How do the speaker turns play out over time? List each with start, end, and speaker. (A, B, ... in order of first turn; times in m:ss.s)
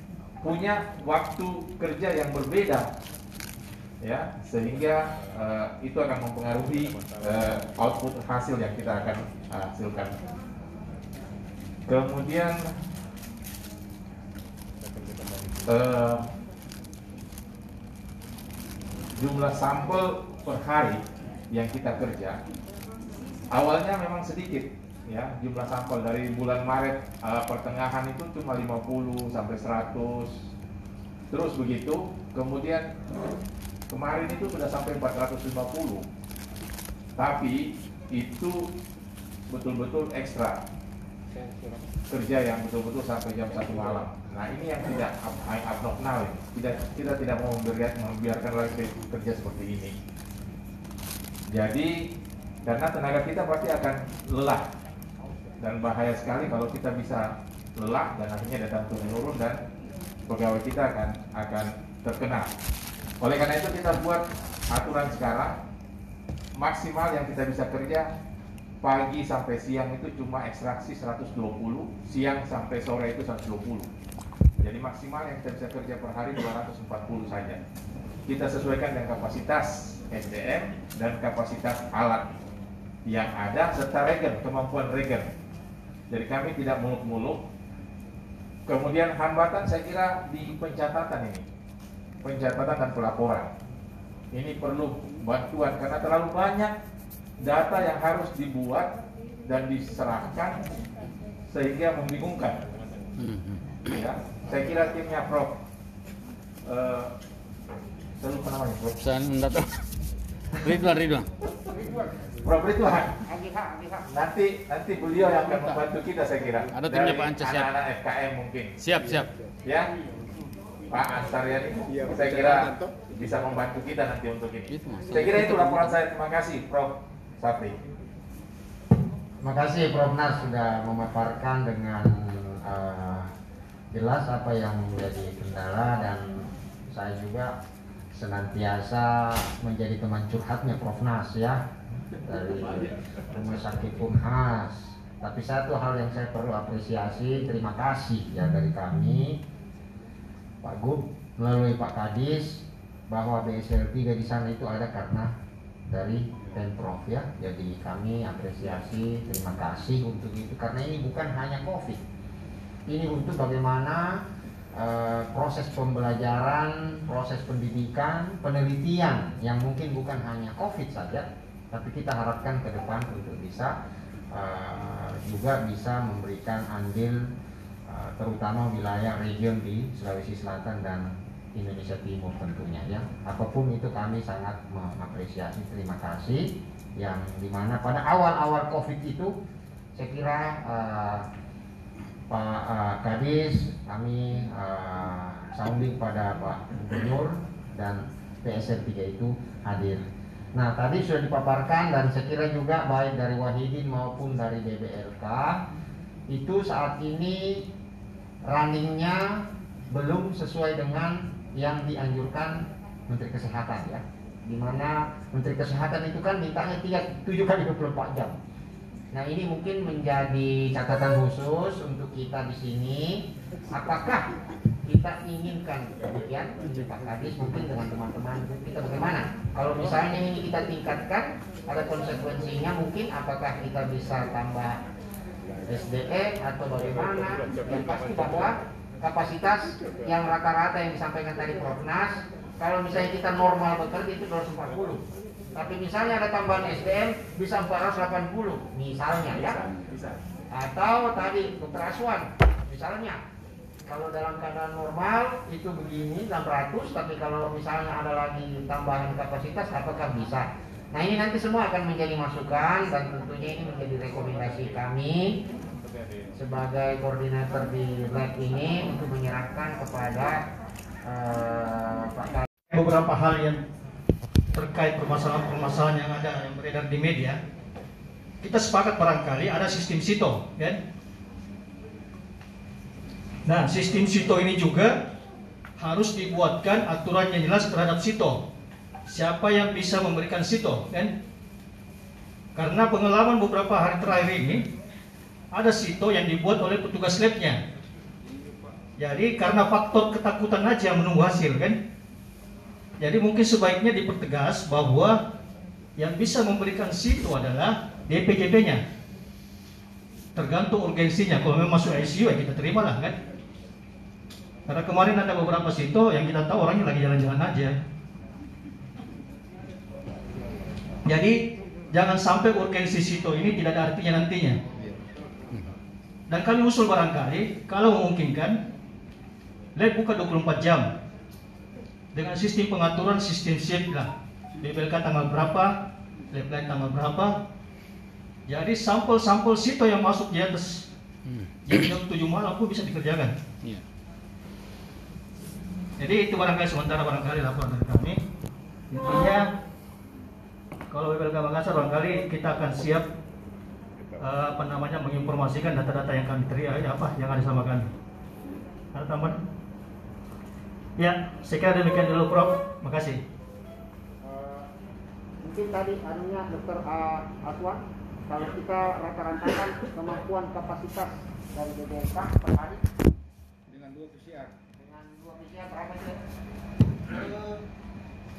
0:00.4-0:02.9 A
0:04.0-0:10.1 A
0:11.9-0:12.6 A
0:15.6-0:16.2 A
0:19.2-0:22.4 A
0:23.5-0:30.3 A
0:31.3-0:32.9 A
0:33.9-0:36.0 A
0:37.2-0:38.7 A
0:39.5-0:40.6 A
0:42.1-0:49.9 A
0:51.5-0:52.0 A
0:52.6-0:54.6 A
0:55.6-0:59.6 A
1:00.3-1:02.5 A
1:03.2-1:05.6 A
1:06.6-1:08.1 A
1:08.8-1:13.9 A
1:14.6-1:17.6 A
1:18.3-1:22.3 A
1:23.0-1:25.2 A
1:26.1-1:27.4 A
1:28.7-1:31.4 A
1:32.2-1:33.5 A
1:34.3-1:36.7 A
1:37.4-1:38.9 A
1:39.4-1:40.6 A
1:41.5-1:42.6 A
1:43.2-1:43.8 B
1:43.9-1:45.5 A
1:46.7-1:47.1 A
1:48.2-1:48.9 A
1:49.0-1:49.8 B
1:50.6-1:51.3 B
1:52.4-1:53.2 A
1:53.2-1:54.0 C
1:54.1-1:58.7 A
1:55.5-1:55.8 B
1:56.7-1:57.7 B
1:58.8-1:59.3 B
2:00.9-2:07.8 A
2:04.7-2:05.9 B
2:09.4-2:13.3 C
2:13.9-2:17.5 C
2:18.1-2:21.6 C
2:22.3-2:29.4 C
2:30.6-2:35.3 C
2:35.9-2:42.0 C
2:42.9-2:44.2 C
2:44.8-2:53.7 C
2:54.3-2:57.2 C
2:57.9-3:09.3 C
3:09.9-3:11.2 C
3:12.3-3:20.0 C
3:20.6-3:25.6 C
3:26.3-3:27.7 C
3:28.5-3:38.4 C
3:39.1-3:44.2 C
3:44.8-3:54.8 C
3:55.7-4:05.0 C
4:05.5-4:09.6 C
4:10.5-4:13.2 C
4:13.9-4:25.4 C
4:25.9-4:26.2 A
4:26.4-4:30.4 C
4:31.0-4:32.5 C
4:32.7-4:33.6 D
4:34.5-4:37.4 D
4:38.4-4:40.8 D
4:43.5-4:44.9 D
4:45.8-4:48.4 D
4:49.1-4:51.1 D
4:52.6-4:54.6 D
4:55.5-4:57.6 D
4:59.0-5:01.8 D
5:03.0-5:05.2 D
5:06.0-5:08.8 D
5:10.4-5:13.1 D
5:14.7-5:17.8 D
5:21.1-5:21.4 D
5:21.9-5:24.6 D
5:26.3-5:28.6 D
5:29.8-5:30.9 D
5:32.1-5:34.1 D
5:34.6-5:35.7 D
5:36.3-5:37.4 D
5:38.5-5:40.9 D
5:41.2-5:41.6 B
5:41.6-5:43.3 D
5:46.0-5:48.2 D
5:48.9-5:49.5 D
5:50.9-5:53.0 D
5:54.2-5:57.9 D
5:58.9-5:59.4 D
6:01.0-6:03.2 D
6:04.2-6:04.6 C
6:05.4-6:12.8 C
6:14.8-6:16.2 C
6:17.1-6:17.3 C